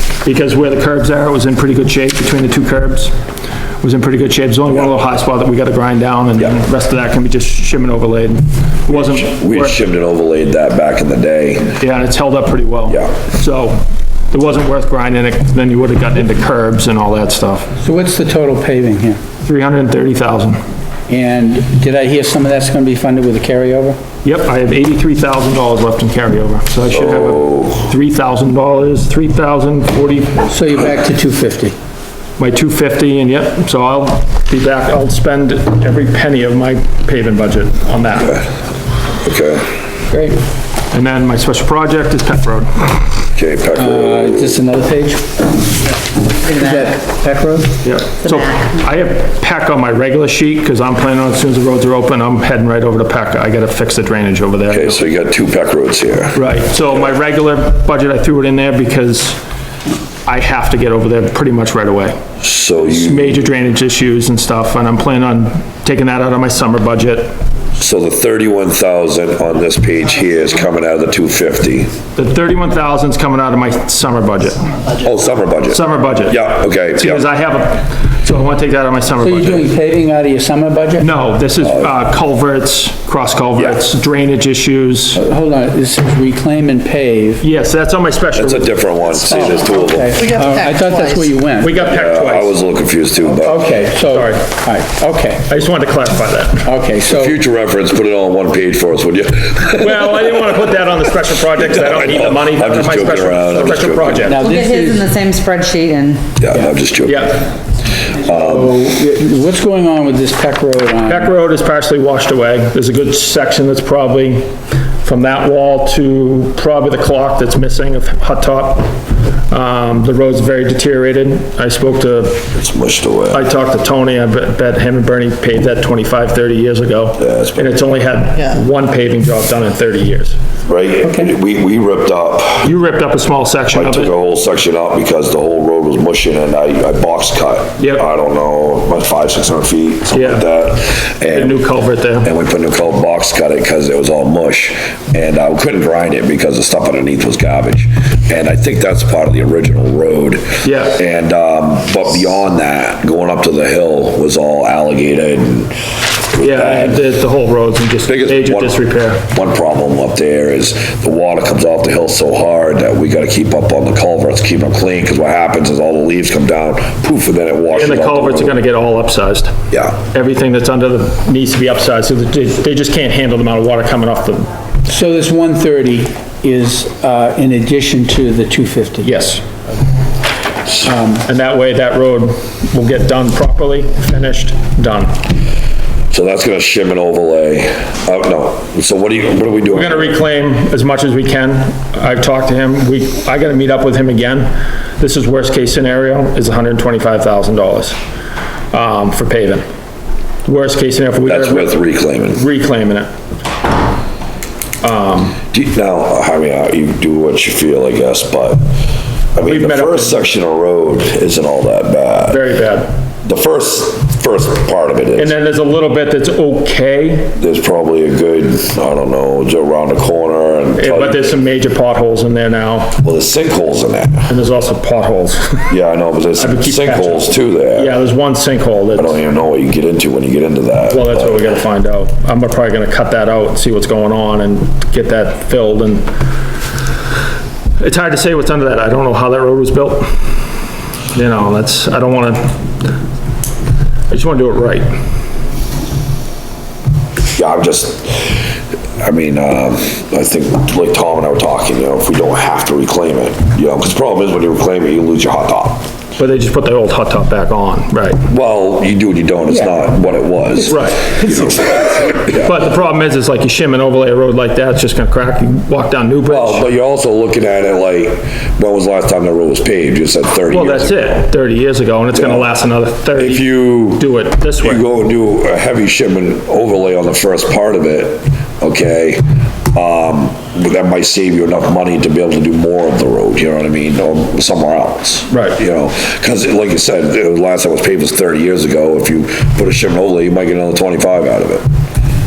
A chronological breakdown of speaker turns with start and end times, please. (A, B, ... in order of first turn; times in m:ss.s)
0:00.2-0:03.1 A
0:03.8-0:09.8 A
0:08.9-0:11.8 B
0:11.8-0:17.7 A
0:17.8-0:19.2 C
0:19.4-0:20.6 A
0:21.1-0:24.0 C
0:24.2-0:30.5 A
0:26.9-0:27.9 B
0:30.5-0:31.8 C
0:32.4-0:38.5 A
0:39.2-0:39.7 B
0:40.1-0:40.4 C
0:40.9-0:43.0 A
0:43.4-0:44.6 B
0:43.8-0:45.8 C
0:46.4-0:47.0 D
0:46.5-0:47.8 C
0:47.8-0:55.0 A
0:48.2-0:48.7 D
0:54.7-0:56.4 B
0:56.3-0:59.4 A
1:00.3-1:02.2 A
1:02.4-1:03.4 B
1:02.8-1:07.3 A
1:07.8-1:11.9 B
1:12.1-1:14.7 A
1:15.0-1:17.2 B
1:15.7-1:19.7 A
1:19.2-1:21.1 C
1:21.0-1:25.2 A
1:21.6-1:22.0 B
1:25.1-1:27.4 C
1:27.4-1:28.7 A
1:28.3-1:30.2 B
1:29.1-1:31.8 C
1:29.7-1:31.3 D
1:31.6-1:32.6 A
1:31.8-1:33.6 B
1:33.4-1:35.5 C
1:34.0-1:34.4 A
1:35.5-1:36.7 A
1:36.6-1:37.4 C
1:37.1-1:40.5 B
1:39.8-1:44.4 A
1:41.6-1:44.4 B
1:44.2-1:45.1 C
1:44.4-1:46.3 D
1:46.4-1:47.4 B
1:47.0-1:47.4 A
1:48.2-1:48.8 B
1:48.3-1:51.3 C
1:51.0-1:59.0 A
1:59.5-2:02.5 A
2:02.5-2:03.4 B
2:03.3-2:10.4 A
2:07.2-2:07.8 B
2:10.7-2:12.7 B
2:11.0-2:11.3 C
2:12.6-2:14.1 A
2:13.7-2:21.6 B
2:17.8-2:18.0 A
2:20.1-2:20.5 A
2:21.3-2:22.3 A
2:22.2-2:37.1 B
2:30.6-2:31.0 A
2:36.4-2:39.2 A
2:38.1-2:38.8 B
2:39.3-2:48.6 B
2:47.7-2:54.5 A
2:49.7-2:50.0 B
2:54.9-2:59.1 C
2:59.0-2:59.4 A
3:00.8-3:01.2 C
3:01.2-3:05.2 A
3:06.1-3:10.2 B
3:09.7-3:18.0 A
3:18.7-3:19.7 A
3:20.4-3:23.1 A
3:21.2-3:22.4 B
3:24.8-3:25.4 A
3:25.5-3:28.6 B
3:29.3-3:32.4 B
3:29.4-3:30.2 A
3:32.3-3:32.9 A
3:33.2-3:35.3 B
3:35.2-3:37.4 A
3:37.4-3:41.3 B
3:40.8-3:43.0 A
3:43.0-3:44.3 B
3:44.3-3:45.7 A
3:45.7-3:48.0 B
3:46.4-3:49.1 A
3:49.0-3:51.4 B
3:50.9-3:56.1 A
3:57.8-4:00.3 A
4:01.1-4:02.6 A
4:04.1-4:04.9 A
4:07.3-4:08.5 B
4:09.0-4:15.8 B
4:16.2-4:18.2 A
4:18.3-4:22.5 B
4:20.6-4:21.2 A
4:22.2-4:26.6 A
4:26.3-4:31.3 B
4:30.5-4:34.8 A
4:32.1-4:32.5 B
4:33.2-4:34.1 B
4:34.6-4:51.6 B
4:45.3-4:45.6 A